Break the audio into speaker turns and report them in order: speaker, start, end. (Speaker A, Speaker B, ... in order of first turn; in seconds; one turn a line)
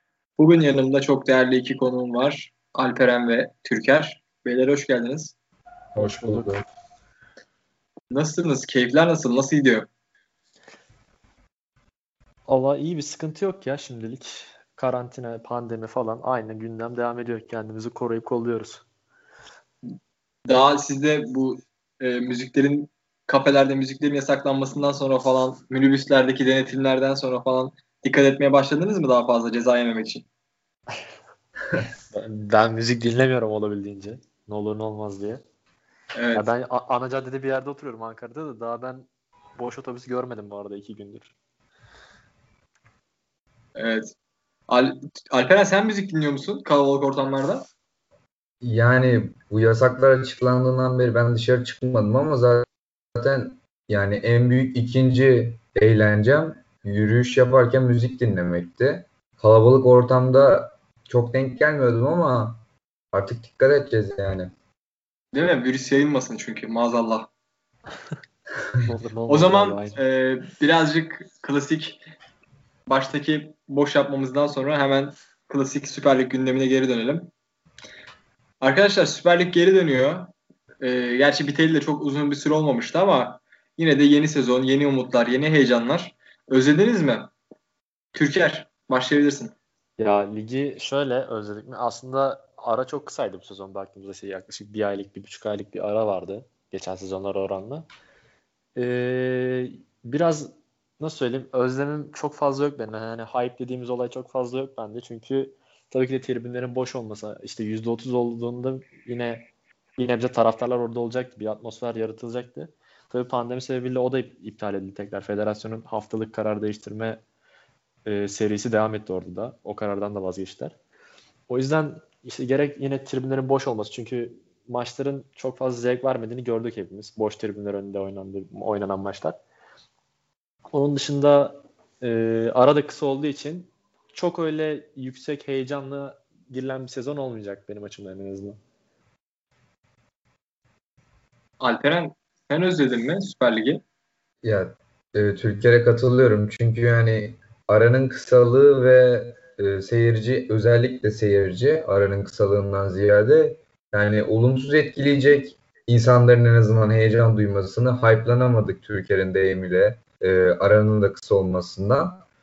Speaker A: 0.4-5.3
Speaker B: 5.9-6.6
Speaker C: 6.0-6.6
Speaker A: 8.1-9.9
Speaker C: 12.4-18.8
Speaker A: 20.4-30.2
Speaker C: 32.1-35.4
Speaker A: 36.1-36.4
Speaker C: 36.3-41.3
Speaker A: 43.7-44.1
Speaker A: 44.7-47.6
Speaker B: 48.6-62.6
Speaker B: 63.1-64.5
Speaker A: 65.3-67.3
Speaker C: 68.8-70.0
Speaker A: 69.3-72.0
Speaker A: 72.9-77.3
Speaker A: 78.6-87.3
Speaker A: 88.1-89.5
Speaker C: 90.0-97.9
Speaker C: 98.8-117.2
Speaker C: 118.0-120.7
Speaker C: 121.5-129.4
Speaker C: 130.7-138.6
Speaker A: 141.6-143.8
Speaker B: 144.4-162.2